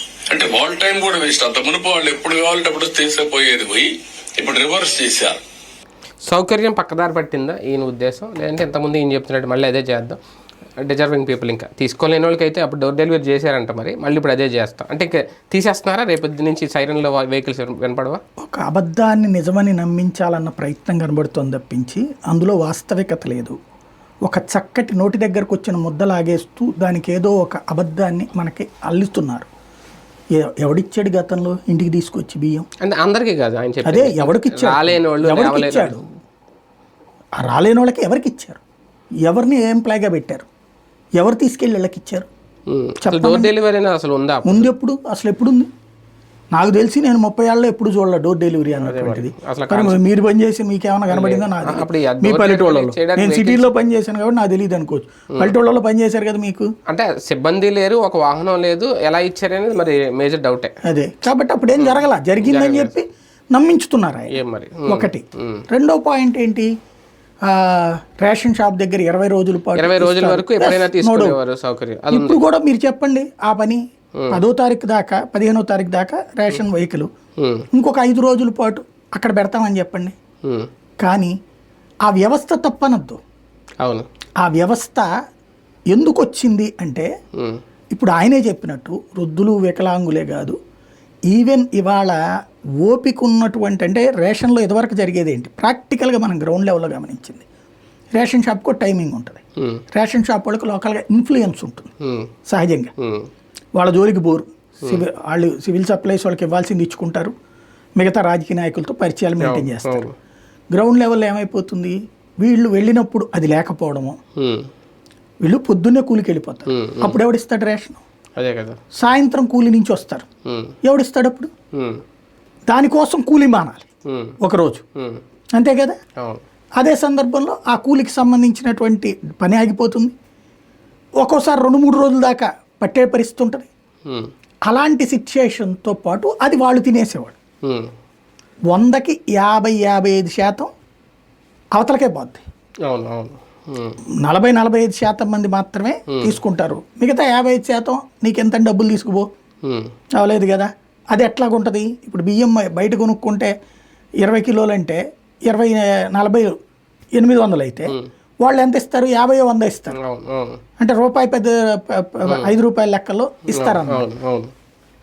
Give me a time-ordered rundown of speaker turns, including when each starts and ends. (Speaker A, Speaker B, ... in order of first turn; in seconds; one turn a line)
Speaker A: 0.3-5.4
Speaker B: 6.2-10.2
Speaker B: 10.8-18.2
Speaker C: 18.4-23.6
Speaker C: 24.2-29.5
Speaker C: 30.3-32.7
Speaker B: 32.8-36.0
Speaker C: 33.8-36.0
Speaker C: 37.4-38.6
Speaker C: 39.2-40.5
Speaker C: 41.2-42.3
Speaker B: 42.7-44.7
Speaker C: 43.0-43.5
Speaker C: 44.4-45.7
Speaker C: 46.5-56.7
Speaker B: 48.8-50.0
Speaker B: 51.1-53.7
Speaker B: 56.9-60.7
Speaker C: 60.8-66.7
Speaker B: 61.8-62.9
Speaker B: 64.3-65.6
Speaker C: 67.4-71.4
Speaker B: 69.8-72.4
Speaker C: 72.1-77.1
Speaker B: 77.4-77.7
Speaker C: 77.7-80.2
Speaker B: 80.4-80.7
Speaker C: 81.0-81.3
Speaker C: 82.0-83.2
Speaker B: 83.8-84.1
Speaker C: 84.4-85.1
Speaker C: 85.9-87.1
Speaker C: 87.9-90.6
Speaker C: 91.3-92.2
Speaker C: 92.8-97.4
Speaker C: 98.1-99.4
Speaker B: 99.6-99.8
Speaker C: 99.9-101.9
Speaker B: 102.0-102.3
Speaker C: 102.5-102.9
Speaker B: 103.0-103.3
Speaker C: 103.7-107.3
Speaker C: 108.0-110.0
Speaker B: 109.4-110.1
Speaker C: 110.7-114.2
Speaker B: 114.4-114.7
Speaker C: 115.4-118.0
Speaker B: 116.7-117.2
Speaker B: 118.4-118.8
Speaker C: 118.9-120.2
Speaker B: 120.5-120.7
Speaker C: 120.8-121.5
Speaker B: 121.7-122.0
Speaker C: 122.7-123.8
Speaker B: 124.1-124.4
Speaker C: 124.4-124.8
Speaker B: 125.0-125.2
Speaker C: 125.5-126.0
Speaker C: 126.8-130.1
Speaker C: 131.2-133.7
Speaker C: 134.6-137.3
Speaker B: 137.6-137.9
Speaker C: 138.7-140.7
Speaker C: 141.7-142.4
Speaker B: 142.9-144.0
Speaker C: 144.2-149.2
Speaker B: 146.1-146.3
Speaker B: 149.6-149.9
Speaker C: 150.1-153.5
Speaker C: 154.2-156.6
Speaker C: 157.2-160.0
Speaker B: 159.9-160.6
Speaker C: 160.8-164.0
Speaker B: 162.2-162.5
Speaker B: 163.5-164.5